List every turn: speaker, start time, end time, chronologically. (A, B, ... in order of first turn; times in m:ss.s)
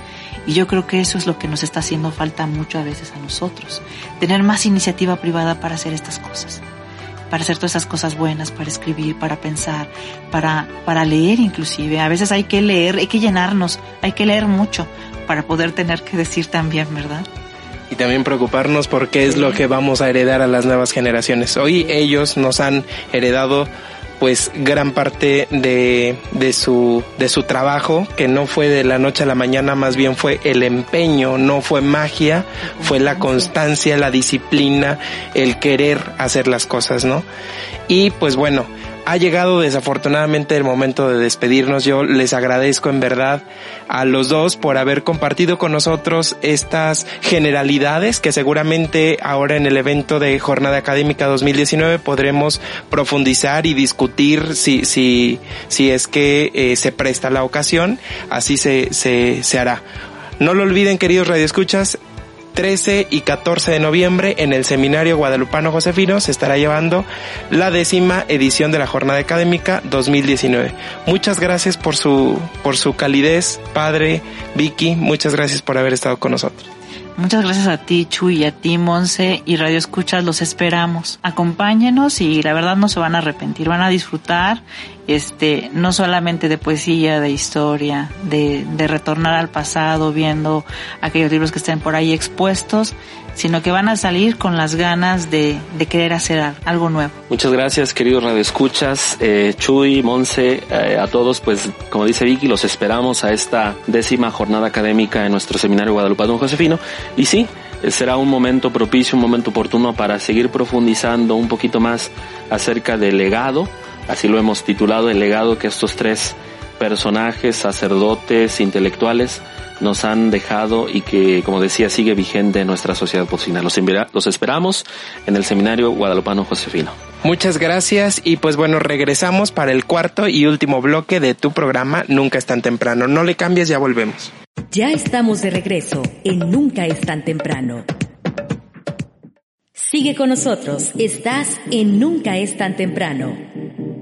0:00.5-0:06.6 A
0:07.3-0:17.3 A
0:17.9-0:37.2 B
0:37.9-0:59.8 B
1:00.4-1:02.0 B
1:02.5-1:16.7 B
1:17.2-1:37.2 A
1:37.3-2:07.0 C
2:07.2-2:14.3 B
2:14.7-2:17.9 D
2:19.8-2:23.4 D